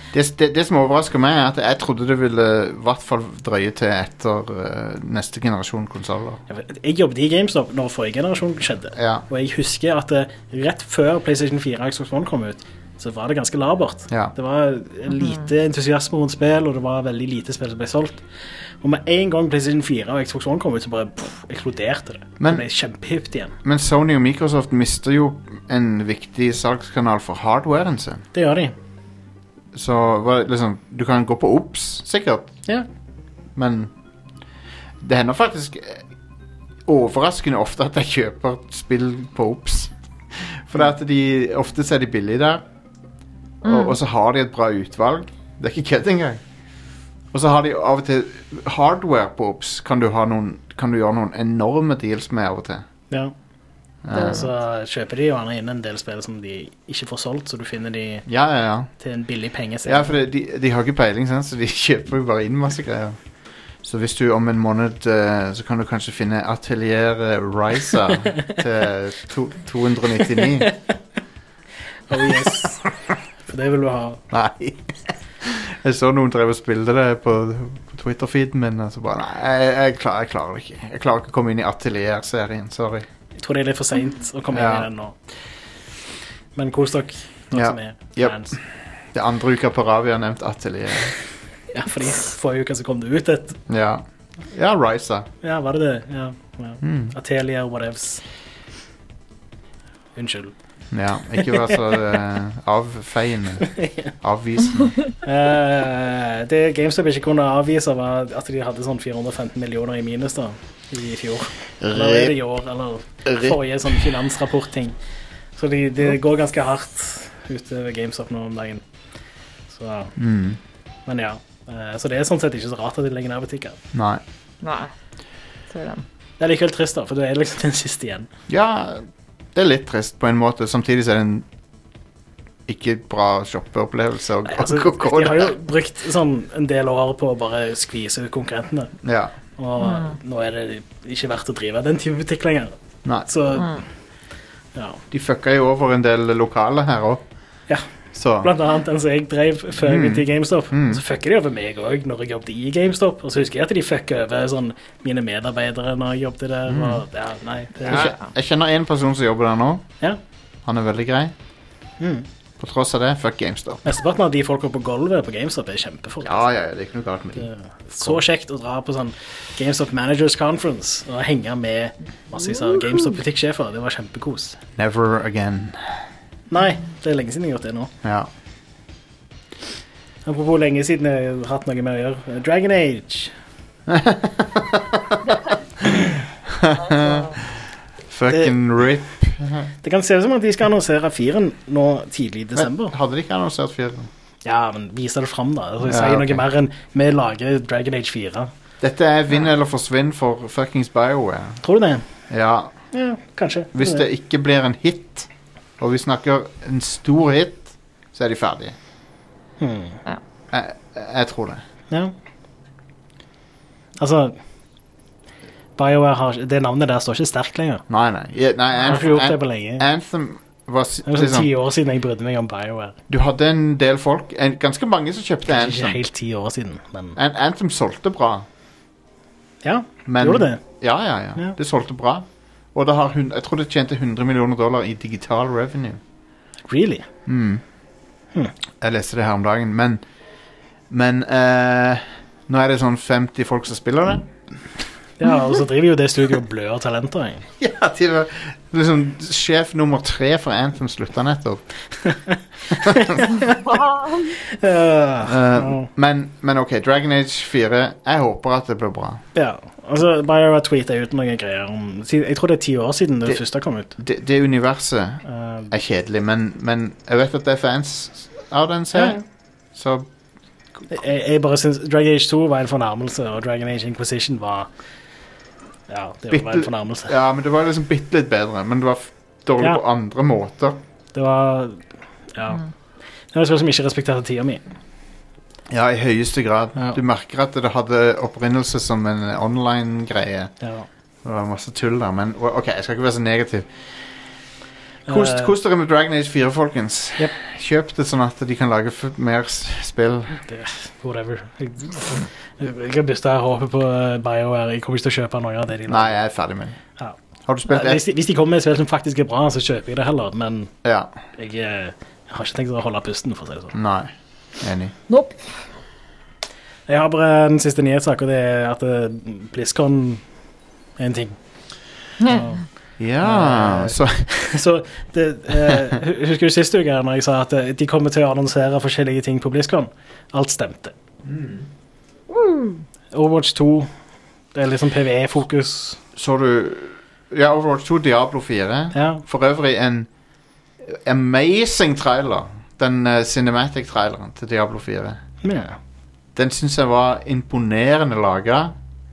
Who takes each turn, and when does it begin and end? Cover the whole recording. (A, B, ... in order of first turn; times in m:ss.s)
0:00.1-0:06.4 A
0:06.5-0:18.2 B
0:08.9-0:09.2 A
0:18.8-0:23.6 B
0:22.4-0:22.6 A
0:23.6-0:28.2 A
0:28.3-0:28.7 B
0:29.7-0:32.5 A
0:33.5-0:33.9 A
0:35.0-0:36.0 A
0:36.9-0:42.6 A
0:43.6-0:43.9 C
0:43.6-0:46.4 A
0:47.3-0:52.8 A
0:54.0-0:54.5 A
0:54.1-0:54.5 C
0:54.1-0:58.3 B
0:58.2-0:58.9 A
0:59.0-1:00.1 B
0:59.8-1:03.2 A
1:03.8-1:10.7 A
1:12.1-1:12.8 B
1:13.5-1:14.2 B
1:14.3-1:23.1 A
1:23.4-1:25.1 B
1:24.5-1:24.9 A
1:26.5-1:28.6 B
1:27.5-1:28.6 A
1:29.1-1:31.1 A
1:31.7-1:33.6 B
1:33.7-1:35.3 A
1:35.4-1:38.2 B
1:36.8-1:37.1 A
1:40.2-1:40.5 B
1:40.9-1:45.0 A
1:43.6-1:44.1 B
1:45.2-1:55.0 B
1:51.8-1:52.4 A
1:53.2-1:53.6 A
1:55.6-1:58.8 B
1:59.7-2:00.1 B
2:00.2-2:00.6 A
2:01.0-2:03.8 B
2:03.9-2:04.2 A
2:04.6-2:04.9 C
2:05.7-2:06.0 C
2:06.4-2:08.3 B
2:08.5-2:11.5 A
2:12.7-2:15.5 A
2:14.5-2:19.0 B
2:19.0-2:19.3 A
2:19.6-2:22.7 B
2:19.8-2:20.1 C
2:23.2-2:23.8 B
2:24.7-2:25.0 B
2:25.1-2:27.2 A
2:28.1-2:28.5 A
2:28.4-2:38.1 B
2:29.8-2:31.0 A
2:36.7-2:37.0 A
2:37.8-2:39.9 A
2:40.6-2:41.3 A
2:42.0-2:42.3 B
2:42.6-2:43.8 A
2:43.8-2:46.4 B
2:46.2-2:47.5 A
2:47.4-2:54.6 B
2:54.8-2:56.0 A
2:56.5-2:57.9 B
2:58.0-2:58.3 A
3:00.2-3:03.3 B
3:03.9-3:05.9 A
3:06.5-3:09.7 A
3:08.3-3:08.5 B
3:09.8-3:12.9 B
3:12.6-3:14.1 A
3:14.4-3:18.5 B
3:15.8-3:16.4 A
3:18.8-3:21.6 A
3:21.6-3:22.0 B
3:22.3-3:22.7 A
3:22.9-3:24.0 B
3:23.7-3:25.3 A
3:25.8-3:28.8 A
3:29.6-3:30.0 B
3:30.5-3:31.6 A
3:34.0-3:34.4 B
3:35.8-3:37.8 B
3:37.9-3:41.5 A
3:38.8-3:39.8 B
3:41.0-3:43.0 B
3:43.1-3:46.0 A
3:45.5-3:47.2 B
3:47.2-3:48.4 A
3:49.6-3:50.6 B
3:50.0-3:56.0 A
3:56.7-3:57.0 B
3:57.2-3:57.6 A
3:58.8-4:00.0 A
4:00.9-4:04.2 A
4:05.2-4:07.4 B
4:07.6-4:11.6 A
4:12.0-4:13.8 B
4:12.7-4:13.2 A
4:13.6-4:14.3 C
4:14.4-4:15.9 B
4:15.2-4:19.2 A
4:19.3-4:23.9 B
4:24.0-4:29.2 A
4:25.2-4:25.7 B
4:28.9-4:29.2 B
4:29.7-4:30.1 A
4:30.9-4:34.7 B
4:35.9-4:37.1 B
4:36.3-4:40.8 A
4:41.1-4:42.6 B
4:43.3-4:44.6 B
4:45.7-4:50.5 A
4:50.6-4:50.9 B
4:51.2-4:53.7 A
4:55.1-4:55.5 B
4:55.1-5:00.4 A
5:00.4-5:06.1 B
5:05.9-5:06.8 A
5:07.4-5:08.0 A
5:07.7-5:10.7 B
5:10.8-5:11.1 A
5:11.4-5:13.7 B
5:13.7-5:14.9 A
5:15.1-5:15.4 C
5:16.9-5:20.2 B
5:21.0-5:21.4 B
5:22.2-5:22.6 B
5:23.0-5:24.3 A
5:23.2-5:30.9 B
5:31.3-5:31.6 A
5:32.3-5:32.8 C
5:33.1-5:33.9 B
5:34.5-5:36.0 B
5:36.2-5:40.1 A
5:38.9-5:39.2 B
5:40.8-5:45.2 A
5:45.4-5:45.8 B
5:46.3-5:48.7 A